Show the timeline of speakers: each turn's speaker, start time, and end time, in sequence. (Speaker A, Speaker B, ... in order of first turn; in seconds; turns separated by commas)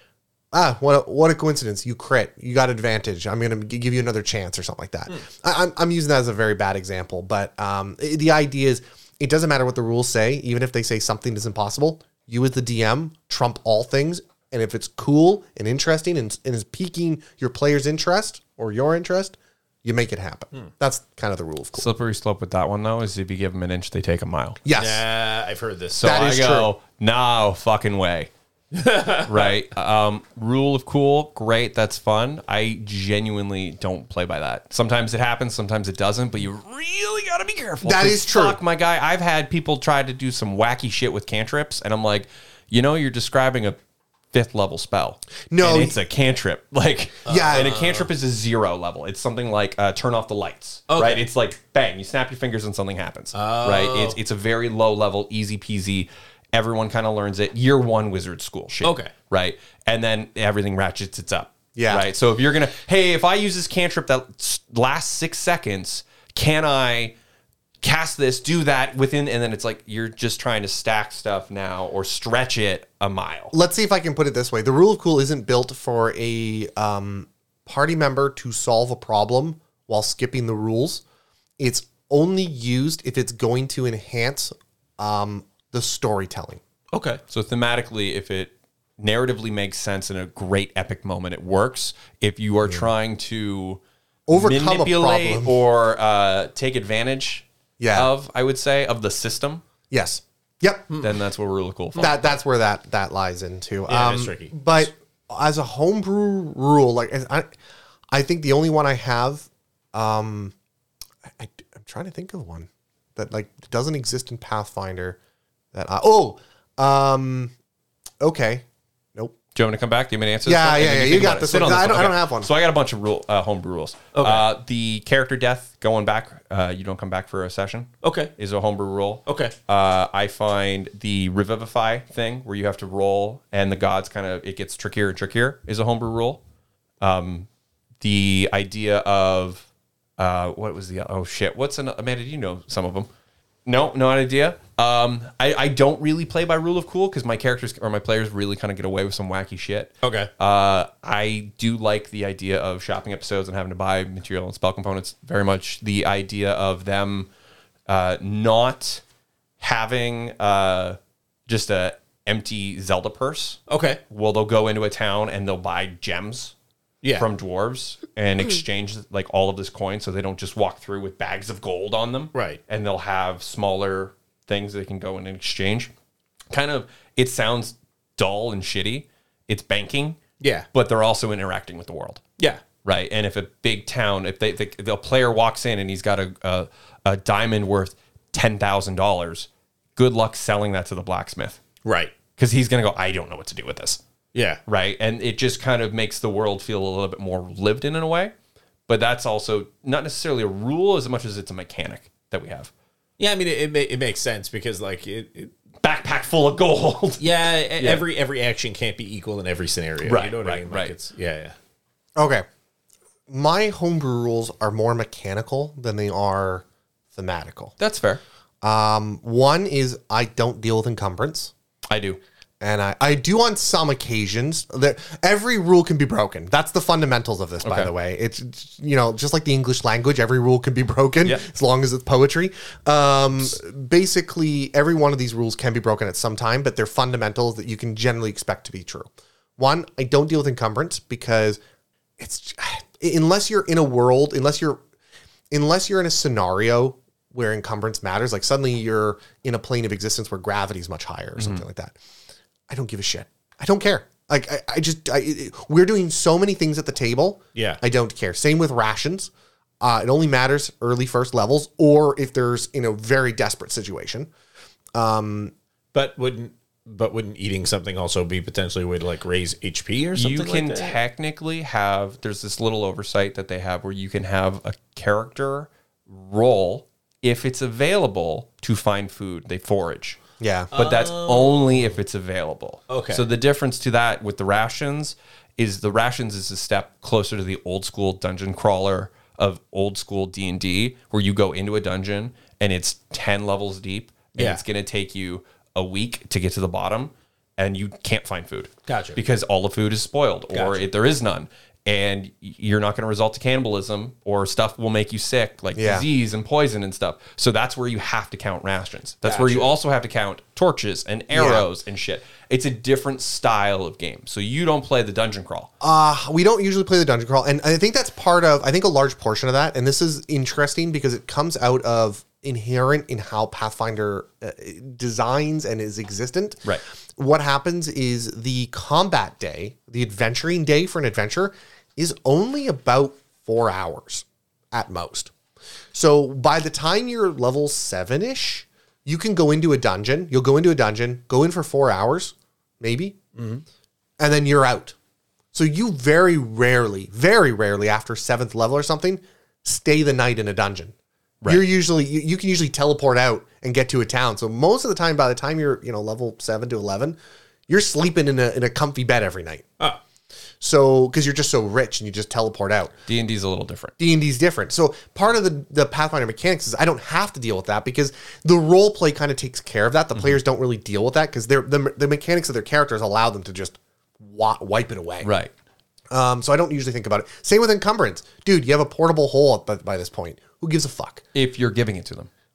Speaker A: 0.5-21.9, Speaker B: 21.8-24.6, Speaker A: 24.6-25.0, Speaker C: 24.8-26.0, Speaker B: 25.9-28.3, Speaker A: 26.0-26.7, Speaker C: 28.7-29.5, Speaker B: 29.2-43.8, Speaker A: 37.8-38.6, Speaker B: 44.3-67.1, Speaker A: 45.5-46.0, Speaker A: 47.2-47.8, Speaker C: 47.2-48.1, Speaker C: 50.9-51.2, Speaker C: 53.3-54.2, Speaker C: 58.8-59.1, Speaker A: 61.7-62.1, Speaker B: 67.8-73.5, Speaker A: 73.5-81.0, Speaker A: 81.6-86.6, Speaker C: 86.9-87.2, Speaker B: 87.3-93.8, Speaker A: 94.3-95.6, Speaker B: 94.3-99.6, Speaker A: 97.8-98.1, Speaker A: 99.9-100.9, Speaker C: 100.9-101.2, Speaker B: 101.0-102.1, Speaker A: 102.0-107.5, Speaker C: 103.9-104.5, Speaker A: 108.1-110.5, Speaker A: 111.4-115.2, Speaker A: 115.7-117.5, Speaker A: 118.2-118.6, Speaker B: 119.5-136.4, Speaker A: 120.4-122.5, Speaker C: 124.1-124.5, Speaker C: 128.0-128.3, Speaker C: 129.2-129.5, Speaker B: 137.0-137.5, Speaker B: 138.0-139.7, Speaker B: 140.2-143.1, Speaker B: 143.7-157.3, Speaker C: 150.0-150.3, Speaker B: 157.9-159.0, Speaker B: 159.6-166.5, Speaker C: 163.7-164.0, Speaker C: 167.0-167.3, Speaker B: 167.2-175.9, Speaker C: 172.3-172.6, Speaker B: 176.5-180.2, Speaker C: 180.4-180.7, Speaker B: 180.7-182.2, Speaker B: 182.8-191.6, Speaker C: 191.8-192.1, Speaker B: 192.4-194.0, Speaker C: 194.3-194.6, Speaker B: 194.7-198.3, Speaker B: 198.9-202.7, Speaker C: 203.2-205.5, Speaker B: 205.8-207.2, Speaker C: 207.2-211.5, Speaker B: 207.8-208.0, Speaker B: 210.0-210.9, Speaker A: 212.2-212.4, Speaker A: 213.3-217.7, Speaker B: 217.8-218.2, Speaker A: 218.6-221.5, Speaker B: 221.9-222.2, Speaker A: 222.6-241.6, Speaker B: 227.6-227.9, Speaker A: 242.2-244.8, Speaker A: 245.5-251.9, Speaker A: 252.7-264.3, Speaker A: 264.9-265.5, Speaker C: 265.9-271.0, Speaker B: 270.1-280.2, Speaker A: 280.4-280.7, Speaker C: 280.7-281.9, Speaker B: 280.7-315.7, Speaker C: 282.9-283.2, Speaker C: 294.3-294.6, Speaker C: 298.9-299.2, Speaker C: 300.5-300.8, Speaker A: 305.8-306.1, Speaker C: 309.2-309.7, Speaker A: 311.3-311.6, Speaker A: 315.8-335.3, Speaker A: 335.9-343.2, Speaker C: 343.4-343.6, Speaker A: 344.2-344.9, Speaker A: 345.5-350.9, Speaker A: 351.4-357.2, Speaker A: 357.7-359.7, Speaker A: 360.6-362.9, Speaker B: 363.1-363.9, Speaker A: 364.0-375.3, Speaker B: 375.2-375.5, Speaker A: 376.1-381.2, Speaker B: 381.3-382.3